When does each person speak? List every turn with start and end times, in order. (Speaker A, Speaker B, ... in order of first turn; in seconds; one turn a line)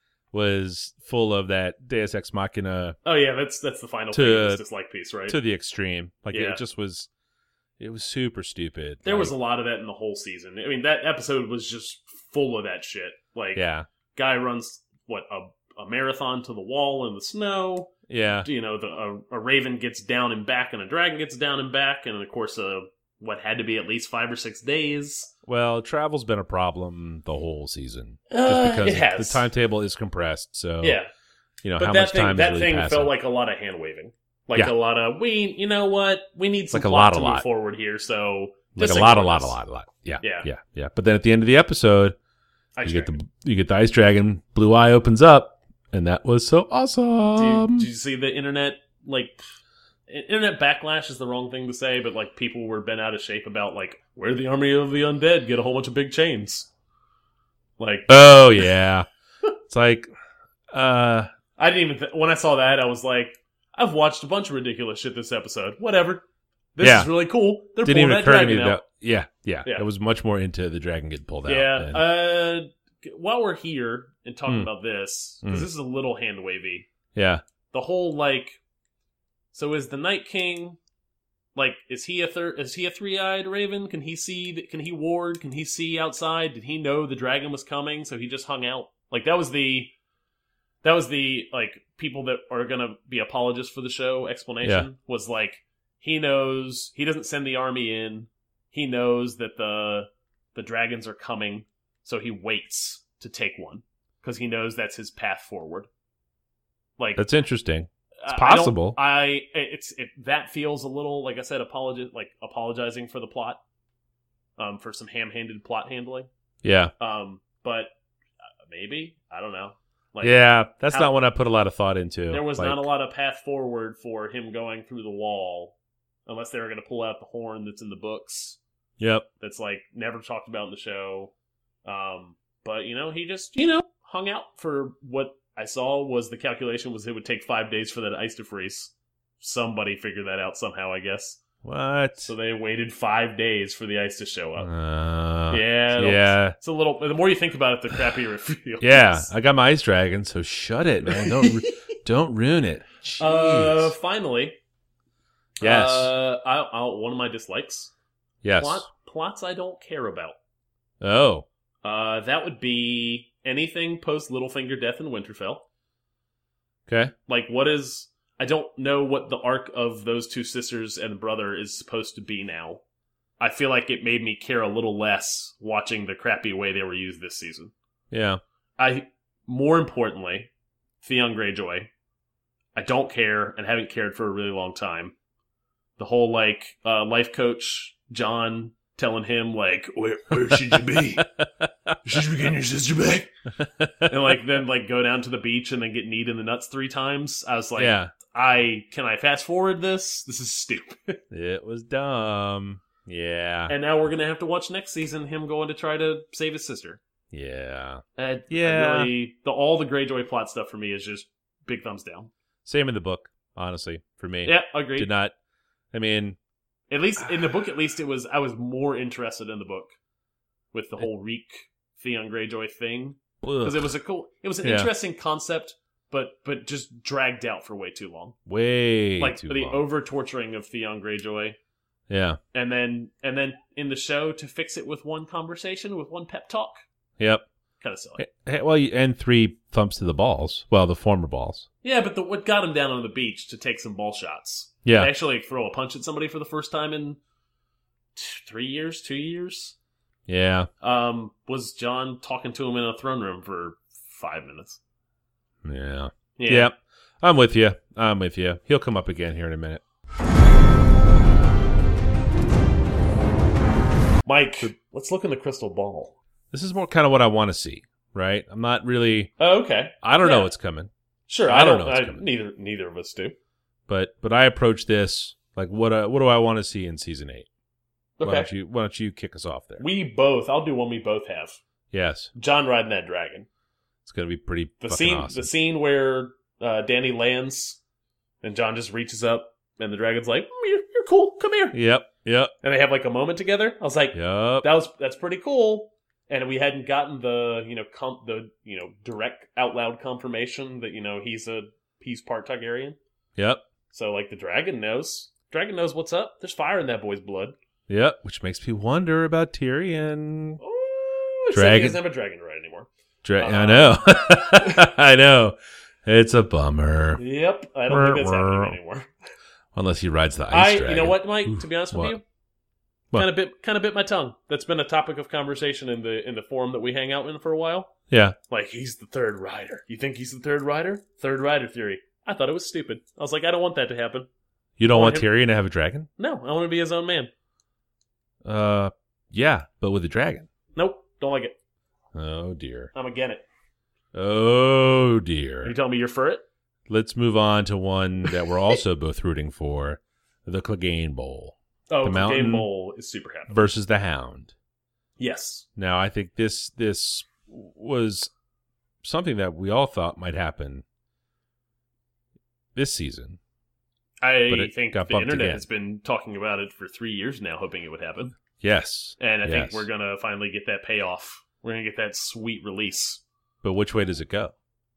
Speaker A: 0.3-3.0
Speaker B: 3.0-5.4
Speaker A: 4.1-4.6
Speaker A: 5.3-7.1
Speaker B: 6.3-6.6
Speaker A: 7.8-9.3
Speaker B: 9.0-13.6
Speaker A: 13.5-13.9
Speaker B: 14.1-25.3
Speaker A: 18.1-18.5
Speaker A: 25.4-31.0
Speaker B: 28.3-29.4
Speaker B: 30.8-31.1
Speaker A: 31.6-33.1
Speaker B: 31.8-39.6
Speaker A: 36.7-37.5
Speaker A: 38.7-42.1
Speaker B: 40.2-40.5
Speaker B: 42.8-43.1
Speaker A: 42.8-47.9
Speaker B: 47.3-49.4
Speaker B: 50.1-56.7
Speaker B: 57.8-58.7
Speaker A: 58.1-59.1
Speaker A: 59.6-60.1
Speaker A: 60.7-61.3
Speaker B: 61.6-66.2
Speaker B: 66.8-68.8
Speaker A: 66.8-67.1
Speaker A: 67.8-72.0
Speaker B: 71.5-76.9
Speaker A: 75.4-75.7
Speaker A: 77.1-77.4
Speaker B: 77.7-78.6
Speaker B: 79.5-80.8
Speaker B: 81.5-89.9
Speaker B: 90.8-105.9
Speaker B: 107.0-107.2
Speaker A: 107.2-109.0
Speaker B: 108.2-113.6
Speaker B: 114.6-116.3
Speaker A: 116.6-116.9
Speaker B: 117.0-117.9
Speaker B: 118.6-120.4
Speaker A: 120.2-122.9
Speaker B: 122.3-125.7
Speaker B: 126.2-128.6
Speaker A: 129.0-129.3
Speaker B: 129.4-131.3
Speaker B: 131.8-141.4
Speaker A: 141.6-142.3
Speaker B: 142.2-144.7
Speaker A: 144.6-146.6
Speaker B: 145.5-149.3
Speaker A: 148.8-153.9
Speaker B: 151.1-151.7
Speaker B: 153.2-154.6
Speaker A: 155.6-156.1
Speaker B: 155.6-157.9
Speaker A: 158.4-158.9
Speaker B: 158.6-160.3
Speaker A: 161.0-161.4
Speaker B: 161.8-165.6
Speaker A: 166.9-167.1
Speaker B: 167.3-172.8
Speaker B: 173.4-177.7
Speaker A: 178.1-178.4
Speaker B: 178.8-180.5
Speaker B: 181.0-181.9
Speaker B: 182.7-185.1
Speaker B: 186.0-191.3
Speaker A: 191.2-192.0
Speaker B: 192.0-193.3
Speaker A: 193.6-194.1
Speaker B: 194.0-201.2
Speaker A: 197.8-198.1
Speaker A: 201.3-203.7
Speaker B: 203.7-207.0
Speaker A: 207.3-209.1
Speaker B: 208.2-212.3
Speaker A: 212.6-215.3
Speaker B: 214.4-215.1
Speaker A: 215.9-216.3
Speaker B: 216.9-219.9
Speaker B: 220.7-228.4
Speaker A: 223.4-223.9
Speaker A: 224.6-224.9
Speaker A: 228.5-229.8
Speaker B: 229.2-231.6
Speaker A: 232.1-232.4
Speaker B: 232.5-236.8
Speaker A: 237.2-237.4
Speaker B: 237.8-238.2
Speaker A: 238.2-241.7
Speaker B: 241.8-247.2
Speaker A: 244.8-245.1
Speaker B: 248.1-249.8
Speaker A: 250.3-250.7
Speaker B: 250.8-254.8
Speaker A: 255.6-259.8
Speaker B: 256.4-256.7
Speaker B: 264.2-266.1
Speaker A: 266.5-269.3
Speaker B: 269.4-270.5
Speaker A: 270.0-270.9
Speaker B: 271.3-273.4
Speaker A: 271.4-272.3
Speaker A: 273.9-277.5
Speaker B: 278.2-278.5
Speaker A: 278.2-279.9
Speaker B: 279.8-281.6
Speaker A: 281.9-282.3
Speaker B: 282.3-283.5
Speaker A: 284.0-285.5
Speaker B: 284.8-287.8
Speaker B: 288.4-291.8
Speaker A: 291.7-292.5
Speaker B: 292.6-303.0
Speaker A: 294.1-294.7
Speaker A: 303.4-303.6
Speaker B: 303.9-307.5
Speaker A: 307.9-310.6
Speaker B: 310.6-314.9
Speaker A: 311.5-312.0
Speaker A: 313.2-317.2
Speaker B: 317.2-319.1
Speaker A: 317.9-318.8
Speaker A: 319.7-322.2
Speaker B: 320.5-322.2
Speaker B: 323.1-327.9
Speaker A: 328.1-328.4
Speaker B: 328.5-334.3
Speaker A: 334.8-336.1
Speaker B: 334.9-335.3
Speaker B: 336.2-337.3
Speaker A: 338.4-340.5
Speaker B: 340.7-341.5
Speaker A: 342.1-342.9
Speaker B: 342.9-343.4
Speaker A: 344.1-345.7
Speaker B: 345.6-346.4
Speaker A: 346.9-352.7
Speaker B: 351.9-353.6
Speaker A: 353.5-354.5
Speaker B: 355.2-355.6
Speaker A: 355.8-358.3
Speaker A: 359.0-360.8
Speaker A: 362.7-363.4
Speaker B: 364.2-368.3
Speaker A: 364.5-365.6
Speaker A: 368.6-369.9
Speaker B: 369.2-373.2
Speaker A: 373.6-374.5